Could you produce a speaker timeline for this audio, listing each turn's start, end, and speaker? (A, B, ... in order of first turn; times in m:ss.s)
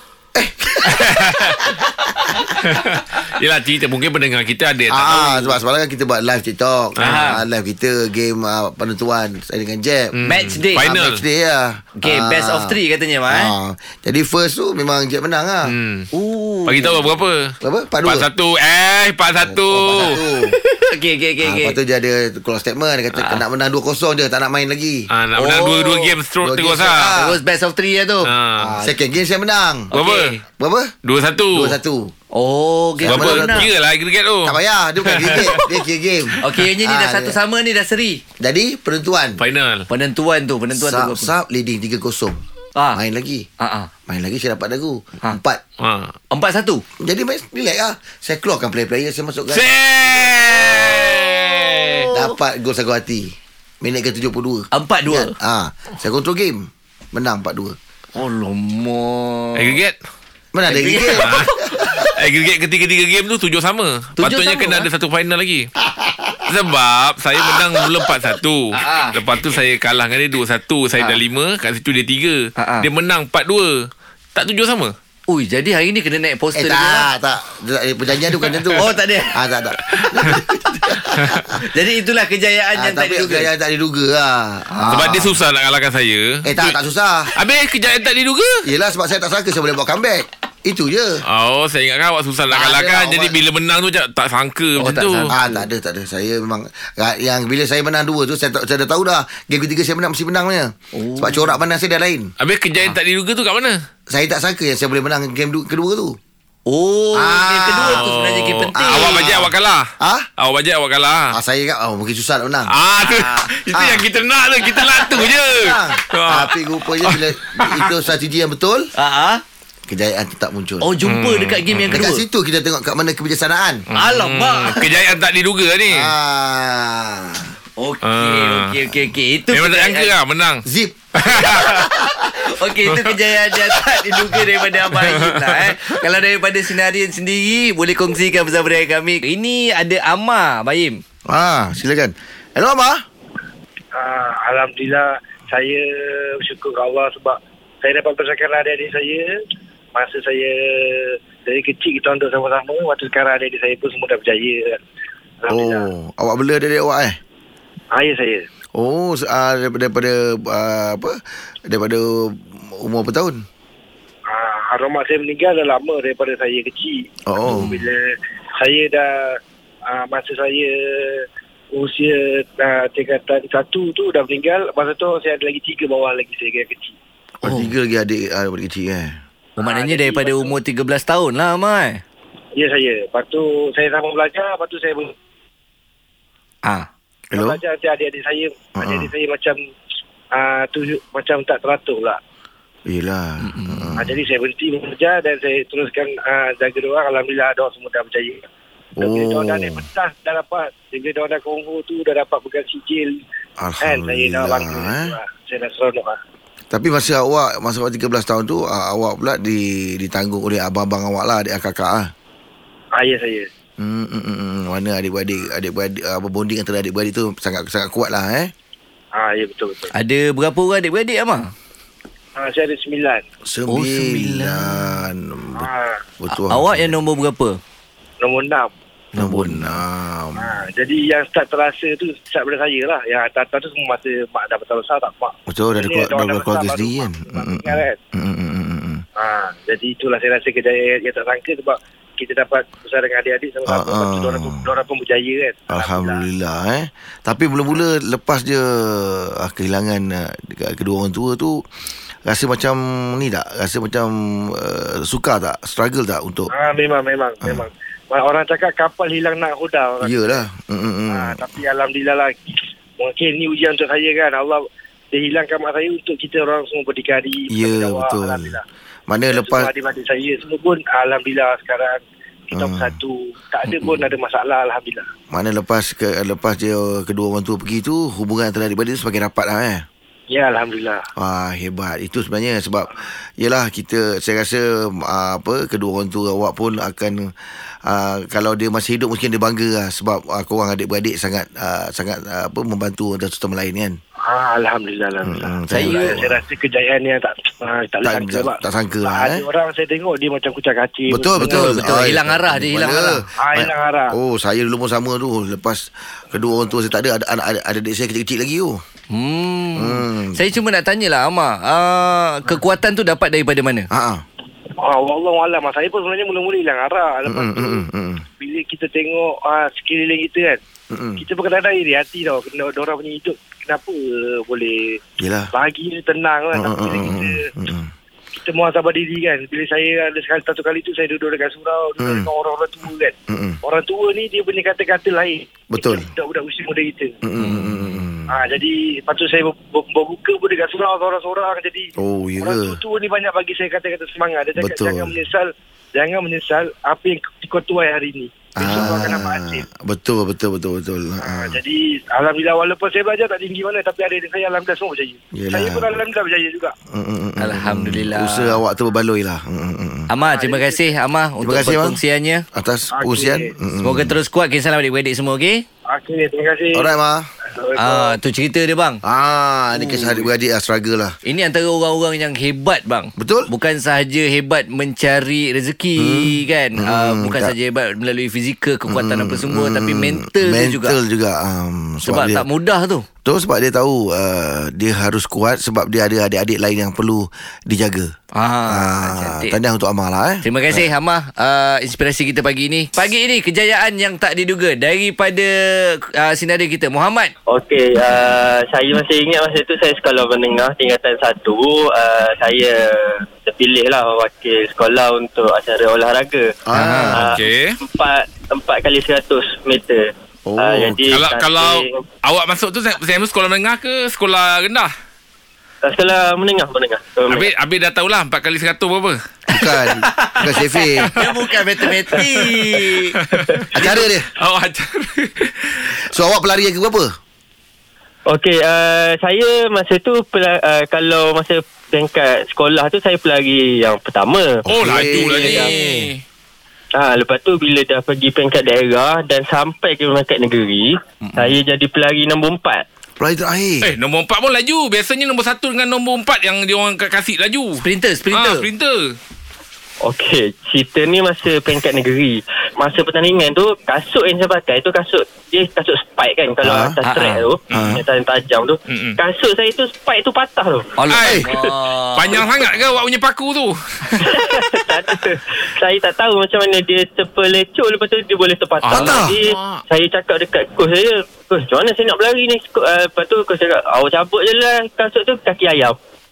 0:00.4-0:02.6 A
0:00.8-0:01.6 B
0:02.6-0:05.6 B
0:04.9-0:10.2 A
0:07.0-0:07.3 B
0:07.0-0:07.4 C
0:10.2-0:11.2 B
0:10.3-0:10.8 C
0:10.8-0:15.7 A
0:12.0-0:13.5 C
0:15.7-0:16.1 B
0:16.1-0:17.0 C
0:16.7-0:20.2 B
0:17.6-0:18.3 A
0:19.4-0:20.6 A
0:20.5-0:21.8 C
0:21.4-0:25.1 A
0:23.2-0:23.4 C
0:25.1-0:27.2 B
0:25.4-0:26.1 C
0:26.4-0:27.4 A
0:27.2-0:28.7 C
0:28.3-0:28.8 B
0:28.7-0:29.9 A
0:29.9-0:30.4 C
0:29.9-0:30.3 B
0:30.6-0:30.9 A
0:31.0-0:31.8 B
0:31.5-0:32.1 A
0:32.3-0:33.7 C
0:33.0-0:33.7 A
0:33.1-0:35.6 B
0:34.4-0:37.4 A
0:36.4-0:38.2 C
0:38.4-0:39.4 A
0:39.4-0:39.9 B
0:39.9-0:41.3 C
0:40.7-0:42.4 A
0:42.9-0:43.5 A
0:43.6-0:43.9 C
0:44.1-0:45.6 A
0:45.8-0:46.2 B
0:46.3-0:46.8 C
0:47.0-0:50.6 A
0:49.5-0:52.1 B
0:51.8-0:52.3 C
0:52.1-0:57.8 A
0:54.7-0:55.3 C
0:58.2-0:59.8 C
0:59.6-1:00.0 B
1:00.5-1:02.1 A
1:00.7-1:01.6 C
1:01.1-1:05.7 B
1:04.2-1:04.9 C
1:06.0-1:06.4 A
1:06.5-1:14.9 B
1:07.5-1:08.2 A
1:08.7-1:09.2 C
1:12.6-1:12.9 C
1:15.3-1:17.1 C
1:16.5-1:21.6 A
1:18.4-1:18.8 B
1:18.8-1:19.4 C
1:19.8-1:20.4 B
1:21.6-1:23.5 C
1:22.8-1:25.4 A
1:24.7-1:25.1 C
1:24.9-1:26.8 B
1:26.4-1:27.3 A
1:27.4-1:28.7 B
1:28.6-1:31.2 A
1:31.3-1:35.3 B
1:32.5-1:33.4 A
1:34.8-1:35.6 C
1:35.3-1:42.3 A
1:41.0-1:41.5 C
1:42.4-1:43.8 B
1:44.1-1:46.2 A
1:46.7-1:49.3 C
1:47.2-1:48.1 A
1:47.9-1:51.4 B
1:48.8-1:50.3 A
1:51.3-1:54.1 A
1:52.7-1:57.9 B
1:54.6-1:58.9 A
1:59.0-1:59.4 C
1:59.9-2:00.9 A
2:00.8-2:02.2 C
2:01.0-2:02.0 B
2:01.9-2:03.8 A
2:03.9-2:06.1 B
2:03.9-2:04.8 C
2:05.9-2:07.5 A
2:07.8-2:10.1 C
2:08.0-2:08.7 B
2:09.5-2:10.6 B
2:10.6-2:12.4 A
2:11.2-2:11.9 B
2:12.4-2:21.0 C
2:12.9-2:13.2 B
2:14.9-2:16.0 B
2:21.3-2:23.0 A
2:23.9-2:29.4 D
2:30.0-2:34.8 D
2:35.4-2:35.9 D
2:35.5-2:37.2 A
2:37.9-2:38.5 D
2:38.8-2:43.4 A
2:44.3-2:57.0 D
2:47.3-2:47.8 A
2:57.4-2:59.2 A
2:57.4-2:57.7 C
2:59.6-3:02.0 C
2:59.6-3:00.6 D
3:02.6-3:05.1 D
3:07.3-3:09.6 D
3:07.3-3:07.6 A
3:08.8-3:09.1 A
3:10.3-3:12.2 D
3:12.9-3:14.2 A
3:13.4-3:13.9 C
3:14.0-3:18.4 D
3:19.0-3:23.2 D
3:19.0-3:19.8 A
3:23.6-3:25.1 A
3:23.8-3:26.2 D
3:26.7-3:32.1 A
3:32.9-3:33.5 D
3:33.8-3:38.5 A
3:39.1-3:39.9 D
3:39.9-3:41.5 C
3:42.4-3:43.2 D
3:43.5-3:45.7 A
3:43.7-3:45.0 C
3:45.6-3:46.0 D
3:46.2-3:47.0 A
3:46.3-3:47.6 C
3:48.2-3:48.7 D
3:49.2-3:49.8 C
3:49.2-3:50.6 A
3:50.4-3:58.0 D
3:55.5-3:59.0 A
3:59.2-4:06.2 D
4:03.7-4:04.7 A
4:05.7-4:11.6 A
4:12.3-4:16.5 A
4:16.5-4:20.4 D
4:20.0-4:21.4 A
4:21.1-4:28.6 D
4:27.5-4:28.6 A
4:29.1-4:29.7 A
4:29.3-4:35.1 D
4:32.5-4:33.0 A
4:33.7-4:34.0 A
4:35.3-4:39.9 A
4:40.3-4:41.1 D
4:41.2-4:47.3 A
4:47.8-4:54.0 A
4:54.2-5:01.9 D
4:55.2-4:56.4 A
4:55.7-4:56.2 C
4:58.0-4:59.4 A
5:01.1-5:08.8 A
5:01.4-5:03.2 C
5:03.4-5:04.2 D
5:09.1-5:13.9 C
5:09.8-5:10.4 A
5:13.9-5:14.2 A
5:14.8-5:17.8 D
5:17.3-5:18.2 A
5:18.4-5:20.6 D
5:20.9-5:21.2 A
5:21.2-5:25.0 D
5:25.2-5:25.5 A
5:25.5-5:27.5 D
5:26.5-5:27.9 A
5:28.3-5:37.2 D
5:32.0-5:32.3 A
5:33.3-5:33.6 A
5:35.7-5:36.1 A
5:37.2-5:38.3 A
5:37.4-5:37.8 C
5:38.3-5:49.7 D
5:42.0-5:42.8 A
5:44.6-5:45.2 A
5:48.6-5:51.6 A
5:51.2-5:56.7 D
5:55.4-5:56.0 A
5:56.9-6:00.1 A
5:57.4-5:58.6 C
6:00.1-6:02.4 C
6:00.2-6:00.9 D
6:01.4-6:02.0 A
6:02.5-6:04.2 A
6:02.9-6:03.5 D
6:03.8-6:05.6 C
6:05.9-6:06.9 D
6:06.7-6:07.3 A
6:07.5-6:08.2 D
6:07.8-6:09.0 C
6:09.0-6:11.2 A
6:09.8-6:10.3 C
6:11.2-6:21.0 C
6:13.2-6:13.5 A
6:16.0-6:17.5 A
6:18.9-6:22.5 A
6:22.1-6:23.0 C
6:23.2-6:28.1 A
6:28.4-6:29.6 C
6:28.7-6:30.9 A
6:30.4-6:37.3 C
6:37.5-6:46.5 E
6:46.7-6:47.3 A
6:46.8-6:47.2 C
6:47.2-6:47.8 B
6:47.2-6:52.0 E
6:50.5-6:51.1 A
6:51.1-6:54.9 B
6:55.8-6:57.5 E
6:57.3-6:59.2 B
6:59.5-7:01.1 A
7:00.1-7:03.2 C
7:03.3-7:06.0 B
7:03.7-7:04.3 A
7:03.8-7:04.0 C
7:06.1-7:07.1 A
7:08.3-7:14.6 E
7:14.7-7:16.2 B
7:14.7-7:16.1 A
7:15.4-7:16.0 C
7:17.0-7:22.8 E
7:23.2-7:23.9 A
7:23.8-7:29.2 B
7:27.8-7:28.7 C
7:30.0-7:40.9 E
7:36.6-7:37.0 A
7:37.0-7:37.5 C
7:37.7-7:38.0 A
7:37.7-7:38.0 B
7:38.9-7:39.2 B
7:41.0-7:42.5 C
7:41.1-7:44.4 B
7:41.2-7:41.5 A
7:44.2-7:56.0 E
7:48.8-7:49.8 B
7:48.9-7:49.4 A